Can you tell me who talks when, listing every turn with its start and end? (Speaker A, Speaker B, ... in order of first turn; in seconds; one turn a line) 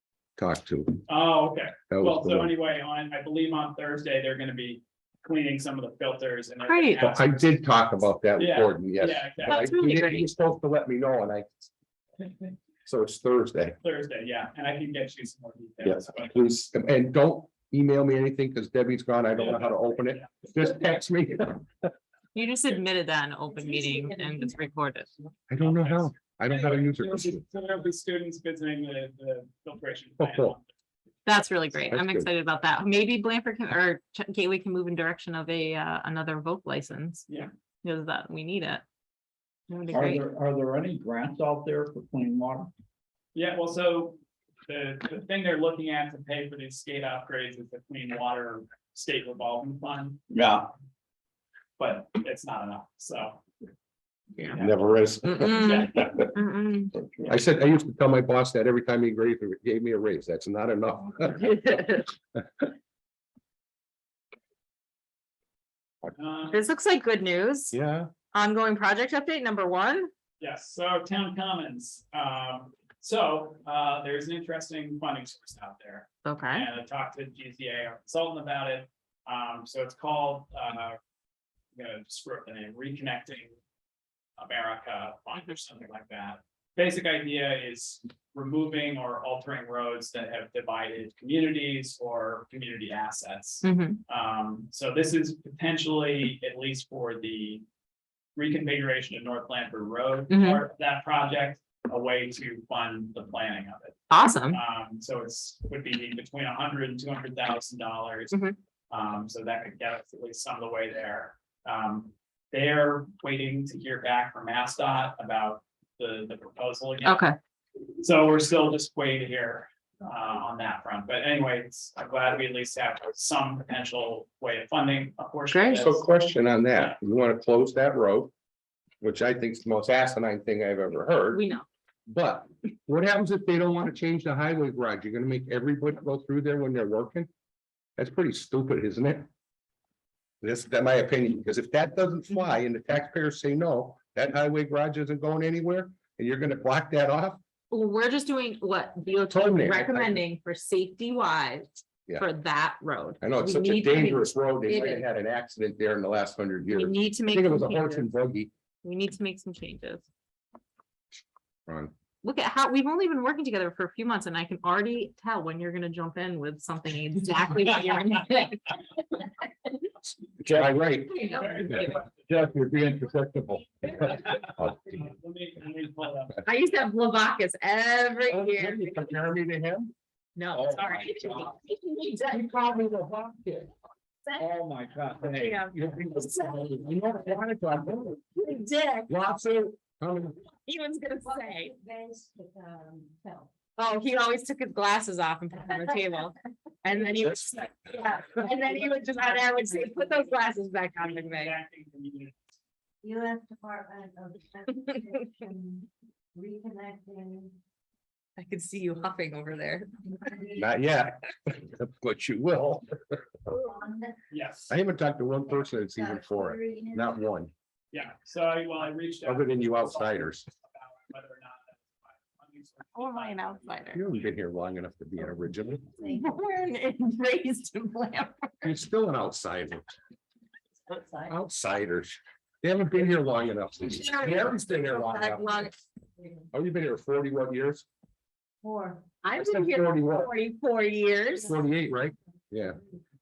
Speaker A: 0.4-1.1
Speaker B: 1.1-7.6
Speaker A: 1.9-2.5
Speaker C: 6.7-7.0
Speaker A: 7.0-11.7
Speaker B: 8.4-9.8
Speaker C: 9.5-10.3
Speaker A: 12.9-13.8
Speaker B: 13.8-16.4
Speaker A: 15.8-21.9
Speaker B: 19.4-20.5
Speaker C: 22.4-25.1
Speaker A: 25.5-27.4
Speaker B: 25.6-30.7
Speaker A: 30.2-30.6
Speaker C: 31.3-37.3
Speaker A: 31.9-32.3
Speaker C: 37.8-38.8
Speaker C: 39.7-40.2
Speaker D: 39.9-42.7
Speaker B: 43.4-50.2
Speaker D: 50.3-50.7
Speaker B: 51.8-53.4
Speaker B: 54.4-54.8
Speaker A: 54.5-56.3
Speaker C: 55.3-56.9
Speaker B: 55.4-56.3
Speaker A: 57.3-61.6
Speaker C: 61.4-62.1
Speaker B: 66.1-66.7
Speaker C: 66.5-67.8
Speaker A: 67.7-68.1
Speaker C: 68.3-70.1
Speaker B: 70.4-81.0
Speaker C: 76.2-76.7
Speaker B: 81.7-83.6
Speaker B: 84.4-97.6
Speaker C: 93.6-94.0
Speaker B: 98.4-117.3
Speaker C: 100.3-100.6
Speaker C: 104.1-104.6
Speaker C: 117.0-117.4
Speaker B: 118.0-126.0
Speaker C: 125.5-125.8
Speaker A: 125.7-128.3
Speaker A: 129.0-131.4
Speaker C: 131.3-131.7
Speaker A: 132.1-137.3
Speaker A: 138.0-139.3
Speaker A: 140.4-147.4
Speaker C: 147.7-155.1
Speaker A: 149.3-150.2
Speaker A: 153.2-158.5
Speaker C: 156.7-158.1
Speaker C: 158.8-160.0
Speaker A: 161.7-161.9
Speaker C: 162.2-168.8
Speaker A: 170.4-174.7
Speaker C: 171.1-172.0
Speaker B: 171.3-172.3
Speaker B: 174.1-176.5
Speaker C: 176.4-179.2
Speaker A: 178.3-179.9
Speaker C: 180.4-182.5
Speaker A: 180.6-181.5
Speaker A: 182.3-183.7
Speaker D: 184.4-185.6
Speaker C: 185.3-186.7
Speaker A: 185.5-188.3
Speaker C: 188.4-189.1
Speaker A: 189.1-190.4
Speaker C: 190.7-191.7
Speaker E: 191.3-193.5
Speaker C: 193.8-201.6
Speaker A: 197.2-197.6
Speaker B: 201.0-202.5
Speaker E: 203.0-207.6
Speaker C: 208.4-210.3
Speaker E: 210.3-210.6
Speaker A: 210.6-213.2
Speaker E: 213.6-214.2
Speaker B: 214.3-214.7
Speaker A: 214.7-217.5
Speaker E: 215.9-217.1
Speaker B: 217.9-224.3
Speaker A: 219.2-220.5
Speaker C: 222.9-224.0
Speaker A: 223.9-225.9
Speaker C: 226.0-228.8
Speaker A: 228.6-229.8
Speaker E: 230.9-231.3
Speaker A: 231.3-235.7
Speaker C: 233.8-235.8
Speaker A: 236.5-237.9
Speaker E: 238.6-239.2
Speaker C: 239.2-241.6
Speaker A: 239.3-240.3
Speaker A: 241.4-242.8